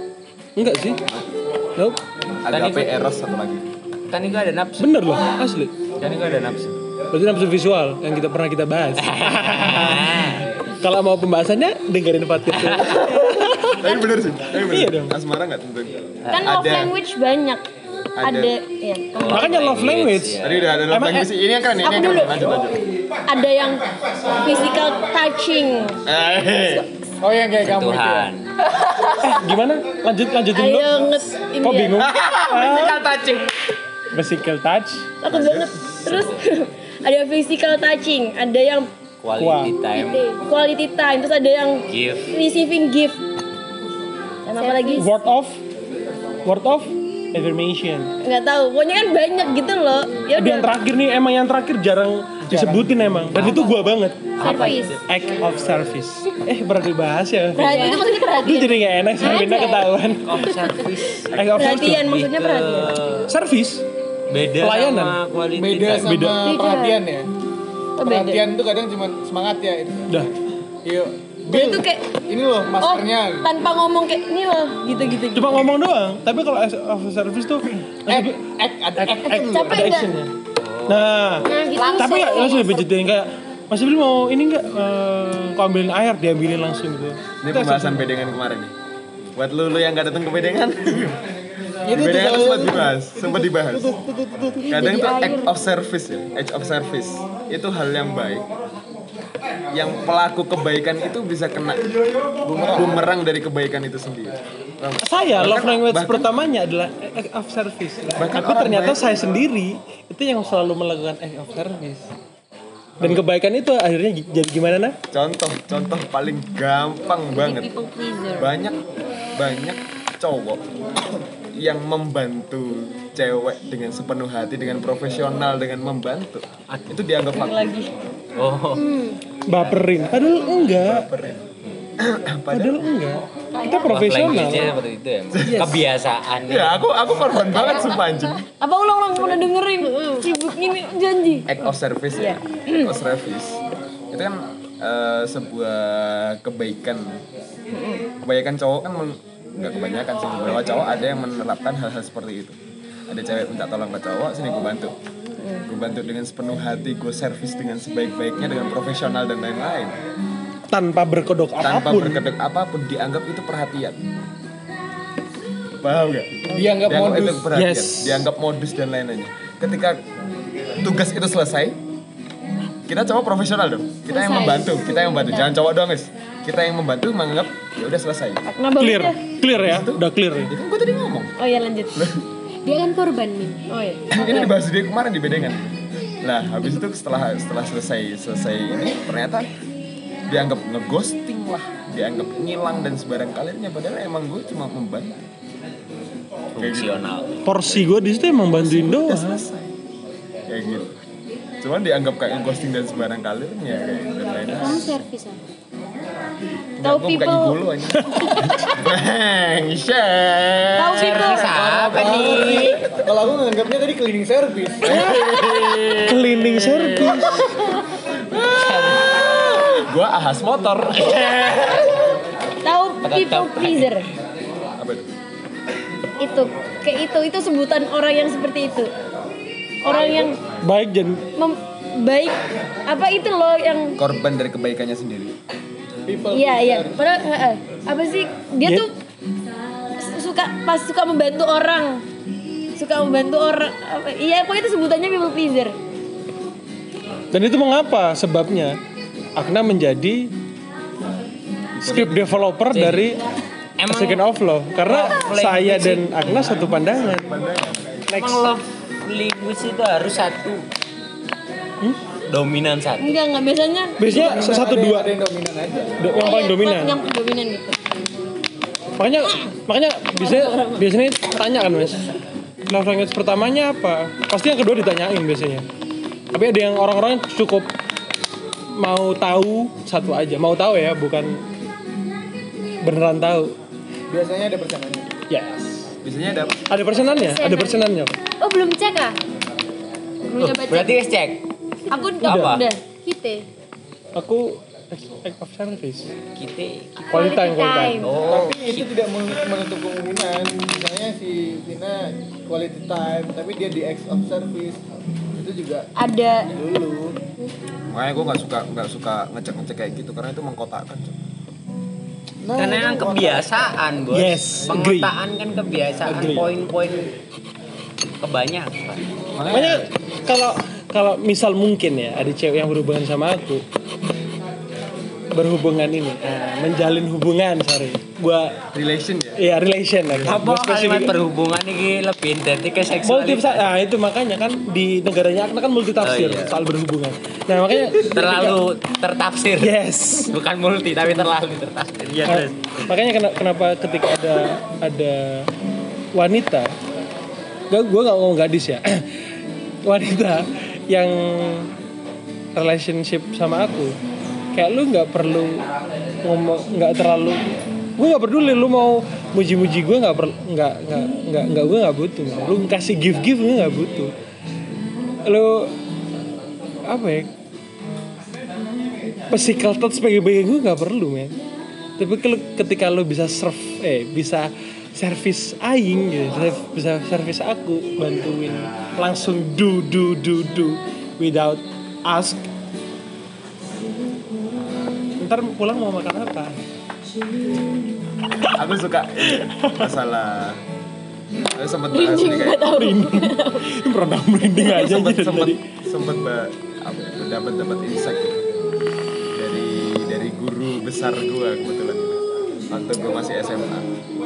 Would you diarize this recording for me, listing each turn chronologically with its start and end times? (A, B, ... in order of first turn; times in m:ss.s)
0:00.6-0:01.0 A
0:02.4-0:03.7 B
0:02.5-0:02.9 C
0:04.1-0:05.0 C
0:04.8-0:05.7 A
0:06.0-0:06.8 C
0:07.1-0:13.9 A
0:09.0-0:10.5 C
0:12.5-0:13.4 C
0:13.7-0:16.9 B
0:14.6-0:15.1 A
0:16.2-0:16.5 C
0:16.3-0:17.6 D
0:18.2-0:18.5 B
0:18.2-0:19.5 D
0:19.2-0:20.6 C
0:19.3-0:21.3 A
0:20.4-0:22.8 B
0:21.8-0:22.5 D
0:23.2-0:26.0 D
0:26.0-0:26.9 B
0:27.2-0:28.3 E
0:27.6-0:28.5 C
0:29.2-0:30.9 A
0:30.5-0:32.1 D
0:31.6-0:33.0 A
0:32.0-0:33.6 C
0:34.1-0:35.1 A
0:35.2-0:38.9 D
0:35.3-0:35.7 B
0:36.0-0:36.3 C
0:39.2-0:40.3 C
0:39.4-0:39.8 A
0:39.9-0:40.4 F
0:40.4-0:43.2 D
0:41.9-0:42.3 C
0:44.4-0:45.1 D
0:44.6-0:45.1 F
0:45.0-0:45.6 A
0:46.4-0:48.1 A
0:48.2-0:50.7 D
0:50.3-1:00.6 A
0:52.5-0:53.5 E
0:53.6-0:53.8 F
0:54.4-0:55.0 C
0:54.4-0:55.0 F
0:54.4-0:54.8 D
0:57.6-0:58.9 D
0:57.6-0:58.4 F
0:59.2-1:00.0 F
1:00.2-1:03.3 C
1:01.3-1:02.1 A
1:01.6-1:02.9 D
1:03.3-1:03.8 A
1:04.3-1:06.1 C
1:04.6-1:05.2 A
1:05.6-1:07.3 E
1:05.9-1:06.5 A
1:06.4-1:07.0 F
1:08.0-1:08.4 D
1:08.0-1:10.3 E
1:10.8-1:13.5 E
1:11.5-1:12.2 D
1:12.8-1:15.7 D
1:15.3-1:20.3 A
1:18.1-1:20.0 E
1:19.5-1:20.1 D
1:20.6-1:21.5 C
1:20.9-1:28.1 A
1:21.4-1:22.9 F
1:21.7-1:22.6 D
1:27.4-1:28.7 B
1:29.4-1:31.2 B
1:31.8-1:34.8 E
1:31.9-1:33.9 B
1:34.6-1:35.5 F
1:34.7-1:38.5 B
1:39.7-1:41.9 B
1:42.4-1:43.0 E
1:42.6-1:46.3 B
1:45.0-1:52.1 A
1:48.2-1:49.2 B
1:53.0-1:55.0 A
1:55.1-1:57.7 B
1:57.4-1:58.5 D
1:58.4-1:58.8 B
1:59.4-2:00.7 B
2:01.6-2:07.8 B
2:07.3-2:07.9 D
2:08.4-2:08.9 C
2:09.4-2:11.1 A
2:09.5-2:09.8 C
2:10.6-2:11.4 B
2:12.0-2:12.8 B
2:12.5-2:14.7 A
2:13.6-2:13.9 D
2:13.9-2:17.4 C
2:15.3-2:15.7 B
2:15.4-2:15.8 A
2:16.5-2:18.4 B
2:18.6-2:21.6 D
2:19.8-2:20.3 F
2:21.5-2:23.6 B
2:22.2-2:22.9 D
2:24.1-2:27.2 B
2:27.7-2:28.0 D
2:28.2-2:32.6 B
2:33.1-2:34.9 B
2:35.4-2:35.6 D
2:35.6-2:40.0 B
2:40.7-2:42.2 A
2:41.6-2:44.0 B
2:45.8-2:50.0 B
2:46.5-2:47.5 E
2:47.5-2:48.2 A
2:50.8-2:51.8 B
2:52.9-2:58.4 B
2:54.1-2:55.5 F
2:58.5-2:59.2 D
2:58.8-3:00.5 A
2:59.6-3:01.3 B
3:01.4-3:02.2 D
3:01.9-3:02.2 B
3:02.6-3:04.2 F
3:03.7-3:04.5 D
3:04.1-3:09.5 B
3:10.3-3:15.2 B
3:16.5-3:17.4 C
3:16.6-3:17.1 B
3:17.4-3:19.4 A
3:18.6-3:19.7 B
3:20.5-3:20.9 B
3:21.6-3:25.0 B
3:24.4-3:25.4 F
3:26.8-3:31.0 B
3:26.8-3:27.6 D
3:28.0-3:28.4 A
3:30.8-3:32.1 D
3:30.8-3:32.8 C
3:31.0-3:35.0 E
3:34.8-3:36.0 B
3:34.9-3:37.5 A
3:35.2-3:37.4 C
3:38.3-3:41.8 B
3:38.4-3:39.2 C
3:41.0-3:42.0 C
3:42.6-3:44.1 D
3:43.0-3:44.0 C
3:44.8-3:45.1 B
3:46.2-3:48.9 D
3:49.8-3:50.4 D
3:50.5-3:51.2 A
3:51.4-3:54.0 D
3:54.0-3:55.4 B
3:56.1-3:57.0 E
3:56.3-3:58.9 D
3:58.6-3:58.9 A
4:00.0-4:02.0 D
4:02.8-4:05.7 D
4:07.3-4:08.8 A
4:09.4-4:10.3 A
4:11.8-4:12.6 B
4:11.8-4:13.2 A
4:12.7-4:13.2 C
4:13.8-4:14.2 C
4:13.9-4:17.3 A
4:14.8-4:16.7 C
4:16.7-4:18.0 B
4:18.1-4:18.5 A
4:18.1-4:20.6 C
4:22.3-4:23.1 C
4:23.0-4:24.0 D
4:24.0-4:25.1 A
4:24.0-4:26.0 E
4:26.0-4:27.0 A
4:26.1-4:27.8 D
4:29.0-4:32.0 A
4:30.1-4:30.9 D
4:32.7-4:35.6 A
4:36.3-4:37.7 A
4:38.8-4:41.4 A
4:42.8-4:43.6 A
4:44.1-4:45.2 E
4:45.3-4:45.8 A
4:46.0-4:46.7 B
4:46.7-4:48.1 A
4:47.1-4:47.9 F
4:48.4-4:49.2 F
4:50.2-4:51.0 D
4:50.5-4:51.4 C
4:51.9-4:52.2 F
4:51.9-4:52.8 D
4:52.2-4:52.6 C
4:52.2-4:52.6 A
4:53.0-4:53.5 F
4:54.1-4:56.1 A
4:56.4-4:57.2 C
4:57.1-4:58.1 A
4:57.1-4:58.2 F
4:58.0-4:59.0 C
4:58.2-5:04.8 E
5:05.4-5:05.9 E
5:06.0-5:06.5 D
5:06.5-5:07.2 E
5:07.9-5:11.2 B
5:12.4-5:13.5 E
5:12.5-5:17.1 C
5:14.1-5:15.1 A
5:16.0-5:16.6 A
5:18.2-5:19.0 C
5:19.4-5:19.9 B
5:19.5-5:23.6 A
5:25.3-5:28.6 A
5:28.7-5:29.4 B
5:29.4-5:31.2 A
5:30.2-5:33.7 C
5:33.0-5:38.6 A
5:36.0-5:36.6 C
5:37.9-5:42.8 C
5:39.6-5:40.3 A
5:42.2-5:45.5 A
5:46.1-5:46.7 A
5:47.7-5:49.2 A
5:49.8-5:51.7 A
5:52.6-5:53.9 A
5:54.5-5:55.7 A
5:56.2-6:04.1 A
6:05.2-6:05.7 A
6:06.9-6:07.3 A
6:09.3-6:11.3 A
6:12.0-6:22.4 A
6:25.2-6:26.6 A
6:28.4-6:30.6 B
6:29.3-6:29.9 A
6:31.5-6:32.7 B
6:31.9-6:33.7 D
6:32.6-6:35.6 A
6:34.6-6:38.4 B
6:39.3-6:43.9 B